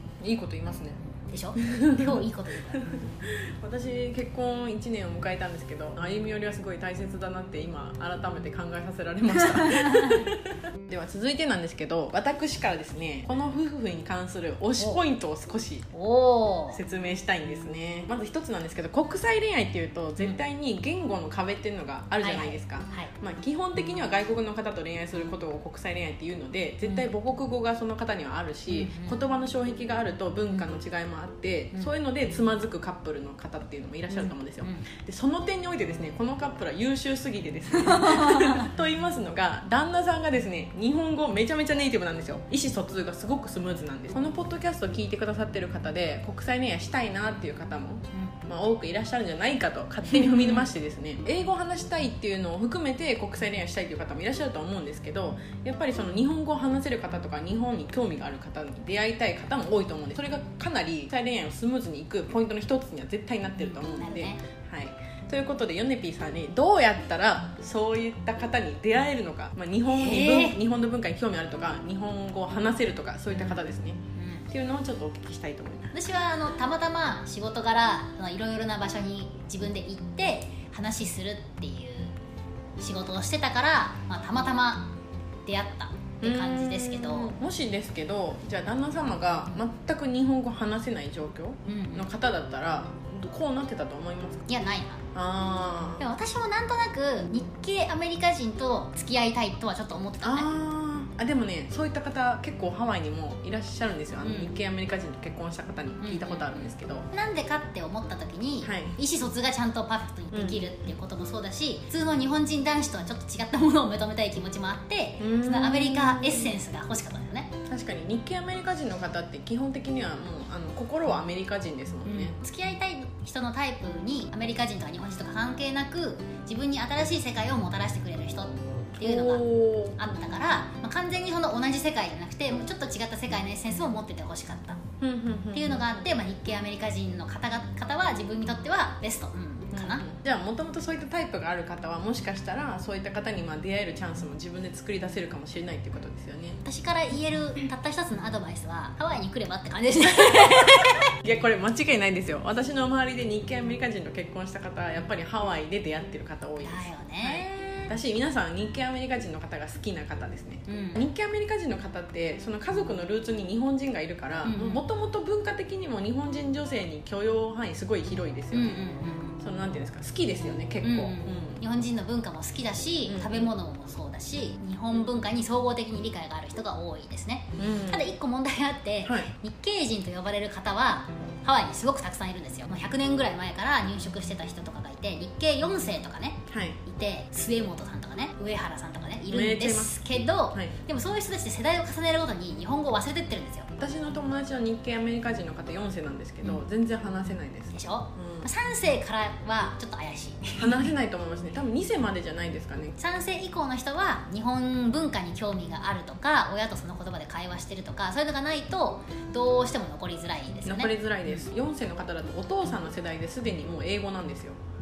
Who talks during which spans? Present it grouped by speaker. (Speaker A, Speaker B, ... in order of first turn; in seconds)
Speaker A: 0.2-1.0, 1.6-2.2, 2.7-15.9, 16.7-74.0, 74.5-75.9, 86.2-94.4, 95.1-96.0, 100.2-107.1, 108.6-109.0, 110.3-110.6, 115.2-116.6, 117.7-122.4, 129.0-130.0, 135.0-135.8, 139.7-146.6, 151.2-168.9, 169.4-171.6, 173.1-173.5, 177.6-178.1, 186.5-186.8, 189.3-190.0, 193.8-198.5, 200.6-203.0, 210.7-214.6
Speaker B: 1.3-2.9, 9.6-10.3, 15.9-16.8, 22.2-23.1, 26.8-27.1, 28.7-29.2, 34.1-34.8, 37.8-38.7, 50.1-50.6, 64.0-64.4, 69.9-70.6, 73.3-73.6, 74.2-74.5, 75.9-82.1, 82.8-85.0, 85.5-87.4, 91.7-92.1, 94.5-95.0, 96.0-100.5, 104.2-104.5, 106.0-117.5, 122.1-134.8, 135.5-140.1, 146.6-151.1, 156.6-157.9, 160.7-161.1, 164.4-164.8, 168.5-169.4, 170.8-193.7, 197.7-200.9, 203.0-211.4